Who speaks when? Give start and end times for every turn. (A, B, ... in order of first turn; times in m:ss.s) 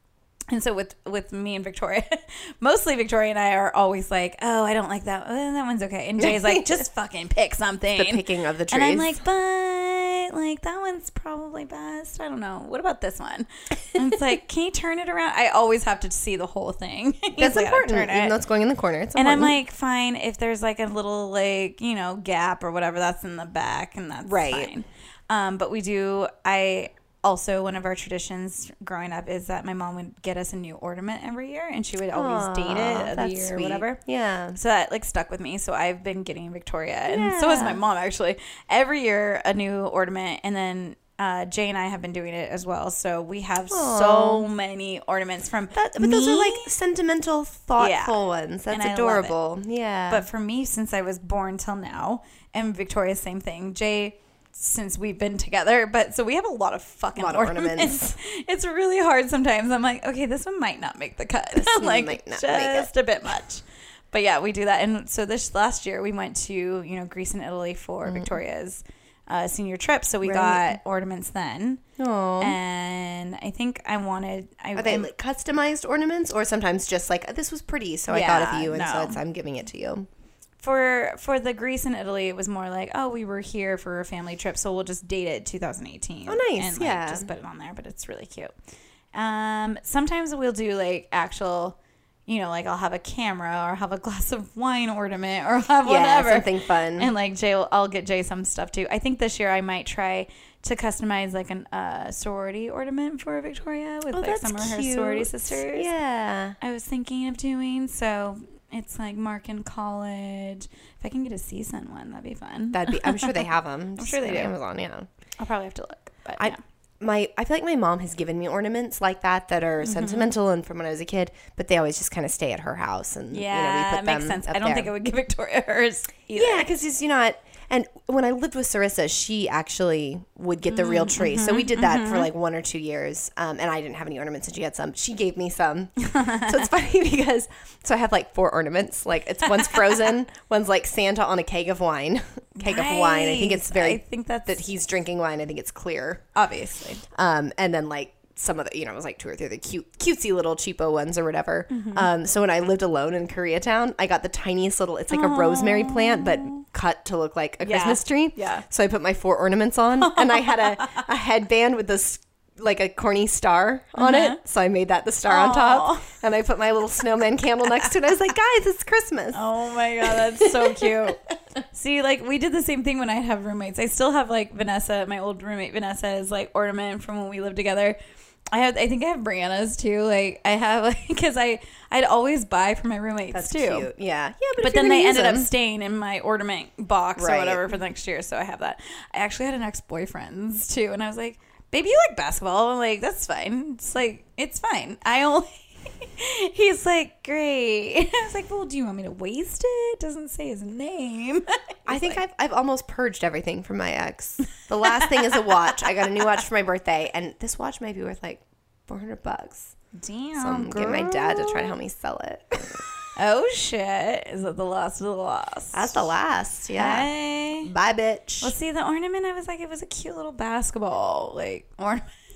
0:00.5-0:18.4 A
0:06.2-0:06.8 B
0:07.9-0:09.2 B
0:17.4-0:19.6 B
0:19.2-0:34.0 A
0:24.2-0:24.7 B
0:32.1-0:34.6 B
0:34.5-0:46.7 A
0:37.1-0:37.8 B
0:43.7-0:44.5 B
0:45.7-0:50.2 B
0:47.8-0:48.2 A
0:48.7-0:49.4 A
0:50.1-1:11.8 A
0:57.2-0:58.2 B
1:01.5-1:02.9 B
1:10.2-1:10.8 B
1:12.0-1:12.6 B
1:12.4-1:15.1 A
1:14.8-1:20.1 B
1:18.1-1:19.2 A
1:20.6-1:28.5 A
1:26.3-1:27.3 B
1:29.1-1:31.8 A
1:32.3-1:45.9 A
1:35.8-1:37.1 B
1:44.1-1:46.6 B
1:46.6-1:53.4 A
1:52.7-1:55.1 B
1:54.0-1:54.5 A
1:55.4-1:56.6 A
1:56.4-2:04.9 B
1:59.8-2:00.3 A
2:03.3-2:06.7 A
2:06.3-2:26.2 B
2:10.7-2:12.3 A
2:16.0-2:16.6 A
2:22.6-2:24.6 A
2:26.3-2:27.0 A
2:27.1-2:49.4 B
2:31.7-2:32.1 A
2:35.1-2:36.6 A
2:37.6-2:38.6 A
2:40.0-2:41.0 A
2:44.0-2:44.4 A
2:45.3-2:46.1 A
2:49.3-2:58.0 A
2:50.0-2:51.2 B
2:58.5-3:03.9 A
3:03.3-3:05.5 B
3:04.6-3:22.2 A
3:07.2-3:07.6 B
3:21.9-3:29.7 B
3:24.8-3:25.4 A
3:29.9-3:31.7 A
3:30.4-3:32.8 B
3:33.2-3:36.0 A
3:35.7-3:38.5 B
3:36.7-3:37.7 A
3:38.4-3:42.1 A